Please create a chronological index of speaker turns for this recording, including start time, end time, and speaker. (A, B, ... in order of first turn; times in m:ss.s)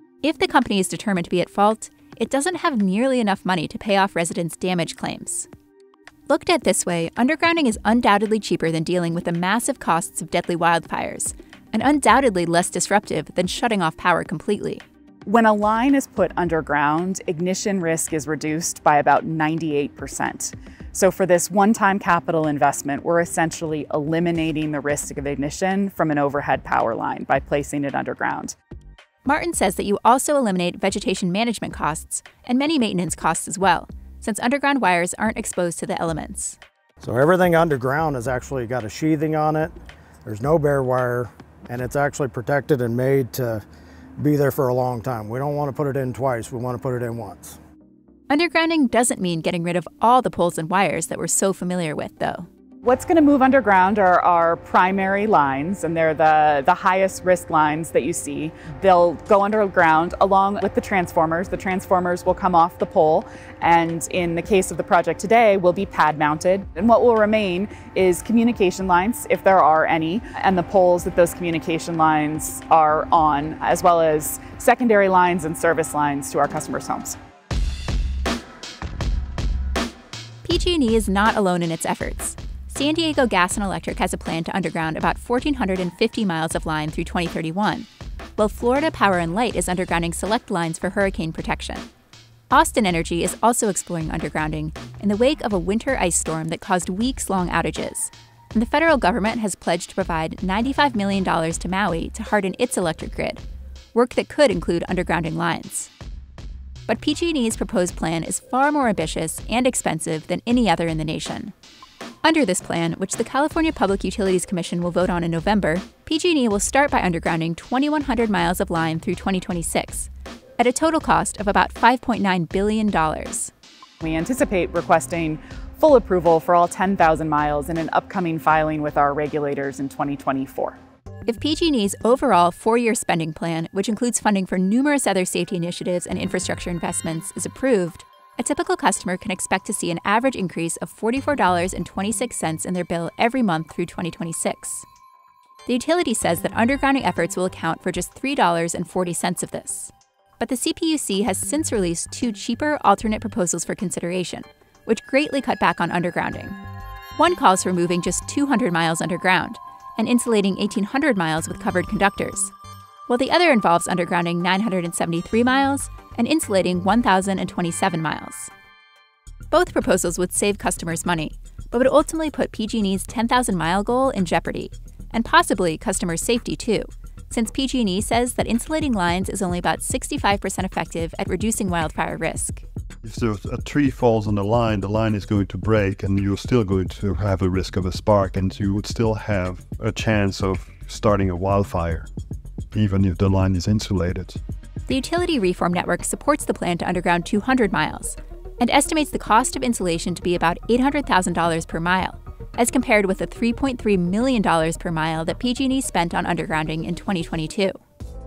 0:00.2-0:05.5 A
0:06.3-0:14.8 A
0:15.2-0:28.6 B
0:29.2-0:36.6 A
0:37.0-0:43.6 C
0:44.2-0:47.6 C
0:48.3-0:52.5 A
0:52.8-1:17.2 B
1:20.4-1:31.8 A
1:32.5-1:43.4 A
1:43.9-1:45.9 A
1:46.9-1:51.5 A
1:52.2-2:03.5 A
2:04.0-2:10.8 B
2:11.2-2:24.8 A
2:25.6-2:36.6 A
2:37.2-2:42.5 A
2:43.1-2:48.5 A
2:49.5-3:02.6 A
3:03.0-3:12.1 D
3:12.7-3:14.4 D
3:14.9-3:27.8 A